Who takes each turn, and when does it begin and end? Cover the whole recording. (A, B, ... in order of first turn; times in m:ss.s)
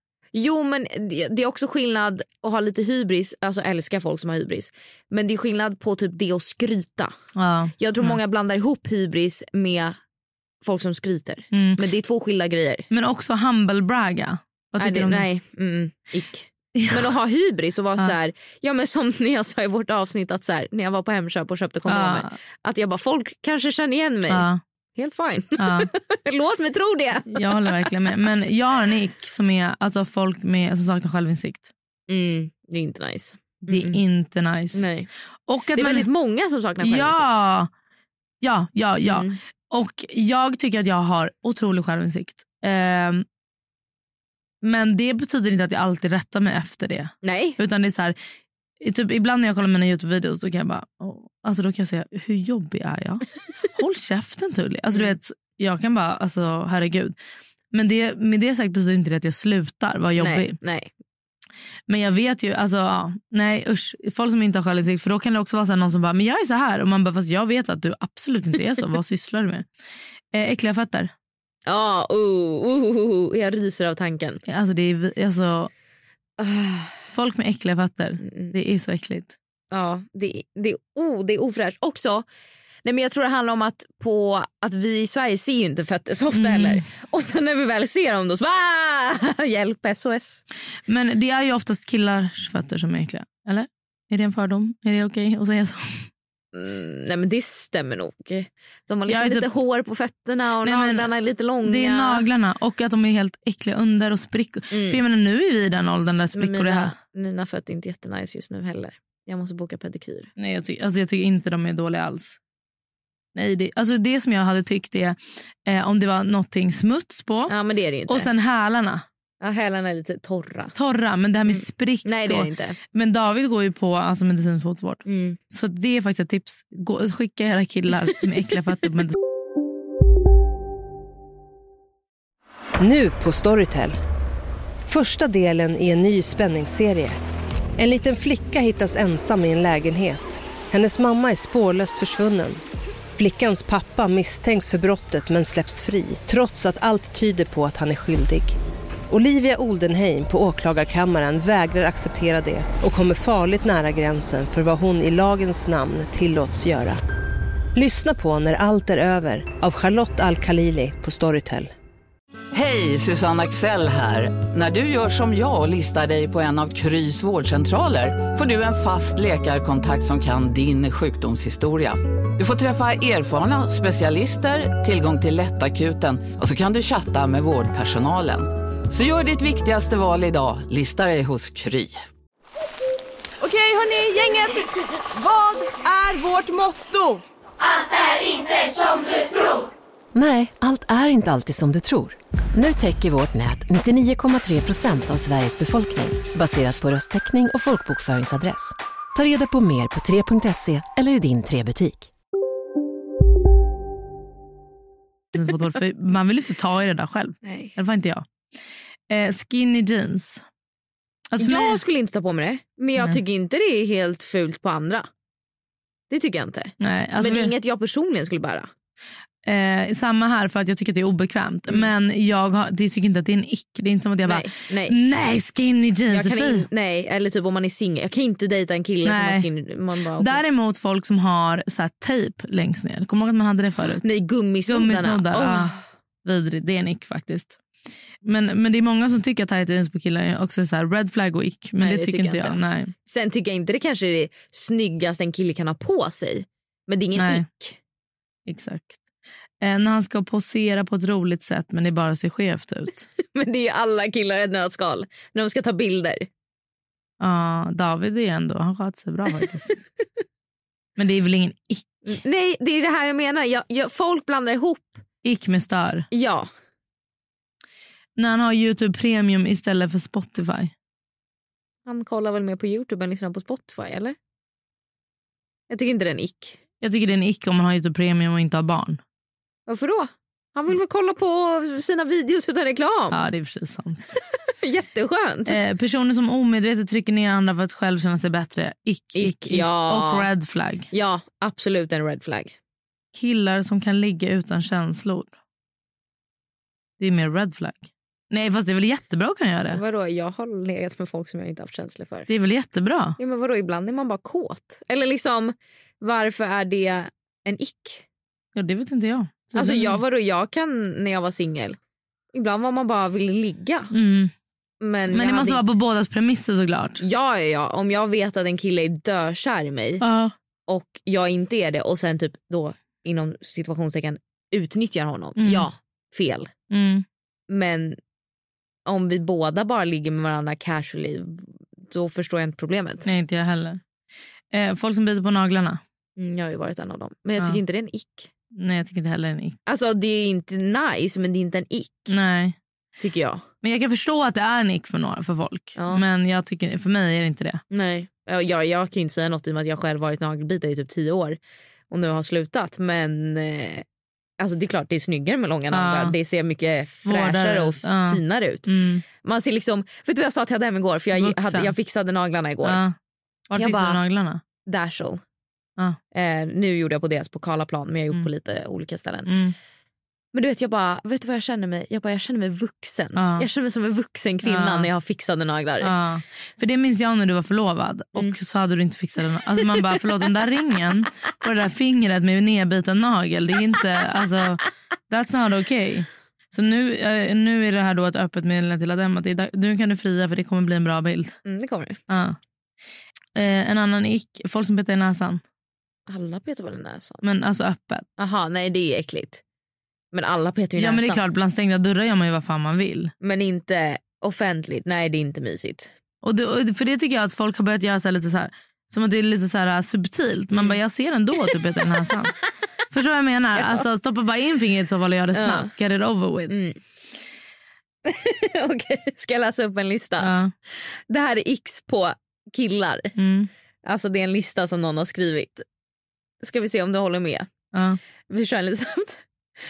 0:00.3-0:07.1 A
0:07.3-0:08.2 B
0:07.8-0:09.9 A
0:10.6-0:12.9 A
0:11.5-0:11.8 B
0:12.9-0:15.2 B
0:14.8-0:24.4 A
0:21.9-0:22.3 B
0:24.3-0:24.6 B
0:25.0-0:27.8 A
0:25.6-0:25.9 B
0:27.3-0:31.7 B
0:32.1-0:34.0 A
0:33.6-0:34.9 B
0:34.7-0:35.1 A
0:35.5-0:36.1 B
0:35.7-0:37.4 A
0:36.8-0:37.7 B
0:38.4-0:43.2 B
0:39.1-0:39.4 A
0:44.6-0:48.1 B
0:47.2-0:47.6 A
0:48.8-0:57.2 B
0:57.7-1:00.6 B
1:00.2-1:00.9 A
1:01.9-1:09.6 B
1:10.3-1:11.1 B
1:11.7-1:14.4 A
1:14.5-1:15.7 B
1:16.4-1:16.9 A
1:17.1-1:19.3 B
1:18.2-1:18.5 A
1:19.7-1:22.2 A
1:22.8-1:30.4 A
1:26.3-1:26.8 B
1:30.9-1:36.1 B
1:36.5-1:42.2 A
1:39.1-1:39.5 B
1:40.6-1:41.1 B
1:41.6-1:46.9 B
1:44.7-1:45.0 A
1:46.3-1:50.3 A
1:50.4-1:52.4 B
1:53.3-1:57.5 B
1:57.5-1:58.3 A
1:58.1-1:59.0 B
1:59.4-2:00.7 A
2:00.7-2:09.1 B
2:01.5-2:02.8 A
2:05.0-2:05.4 A
2:12.8-2:13.9 C
2:14.8-2:17.2 C
2:17.8-2:22.6 C
2:23.2-2:28.6 C
2:29.1-2:37.0 C
2:37.7-2:41.7 C
2:42.5-3:01.9 D
3:03.6-3:04.0 E
3:05.5-3:06.9 E
3:10.1-3:22.1 F
3:25.3-3:28.2 B
3:27.4-3:27.7 A
3:29.1-3:30.4 B
3:31.3-3:31.8 B
3:31.4-3:35.0 A
3:36.1-3:38.7 A
3:36.8-3:37.5 B
3:39.4-3:46.6 B
3:44.2-3:45.0 A
3:46.1-3:50.4 A
3:49.0-3:49.5 B
3:50.2-3:54.1 B
3:54.0-3:55.8 A
3:54.7-3:55.7 B
3:56.2-3:57.6 B
3:58.2-4:02.9 B
4:01.8-4:07.8 A
4:07.2-4:07.4 B
4:08.4-4:09.0 B
4:09.6-4:13.1 B
4:13.3-4:16.2 A
4:17.2-4:19.8 B
4:21.0-4:21.9 B
4:22.1-4:25.0 A
4:25.2-4:26.1 B
4:26.1-4:26.5 A
4:28.2-4:30.7 B
4:31.8-4:34.2 A
4:35.7-4:36.6 A
4:36.8-4:39.0 B
4:39.7-4:43.2 A
4:43.1-4:44.2 B
4:44.6-4:45.6 A
4:45.5-4:50.9 B
4:49.1-4:50.3 A
4:50.9-4:52.5 A
4:53.1-4:55.3 B
4:57.0-4:59.8 B
4:59.7-5:02.3 A
5:02.3-5:03.1 B
5:03.2-5:08.0 A
5:08.5-5:10.0 B
5:09.6-5:11.8 A
5:12.3-5:13.9 A
5:13.9-5:14.3 B
5:14.8-5:15.6 A
5:15.1-5:17.0 B
5:17.0-5:20.0 A
5:20.0-5:20.3 B
5:20.7-5:26.5 A
5:25.4-5:25.7 B
5:26.7-5:27.0 B
5:27.5-5:28.0 A
5:28.9-5:33.0 A
5:33.0-5:33.8 B
5:34.5-5:35.8 B
5:36.2-5:38.3 A
5:38.6-5:39.6 B
5:39.6-5:42.1 A
5:42.1-5:42.6 B
5:43.0-5:43.4 A
5:43.6-5:47.6 B
5:45.8-5:46.0 A
5:47.7-5:51.4 A
5:51.9-5:53.8 A
5:54.4-5:58.7 A
5:55.7-5:56.2 B
5:57.0-5:59.0 B
5:59.2-6:02.8 A
6:01.1-6:01.7 B
6:02.6-6:02.9 B
6:03.5-6:04.4 B
6:03.6-6:04.0 A
6:04.6-6:05.2 A
6:06.1-6:09.3 A
6:09.2-6:09.5 B
6:10.3-6:15.9 A
6:13.2-6:13.5 B
6:14.4-6:14.9 B
6:15.8-6:31.4 B
6:31.4-6:32.0 A
6:32.1-6:32.4 B
6:33.3-6:35.4 B
6:36.1-6:37.2 A
6:37.2-6:38.0 B
6:38.2-6:39.4 A
6:40.1-6:41.2 A
6:40.8-6:43.1 B
6:43.2-6:45.9 A
6:46.2-6:52.4 B
6:52.9-6:56.5 B
6:53.6-6:53.8 A
6:55.3-6:55.7 A
6:56.5-6:56.8 A
6:58.1-7:00.3 A
7:00.2-7:00.5 B
7:01.1-7:03.1 A
7:03.2-7:03.5 B
7:03.8-7:05.6 A
7:06.4-7:07.4 A
7:08.3-7:09.2 A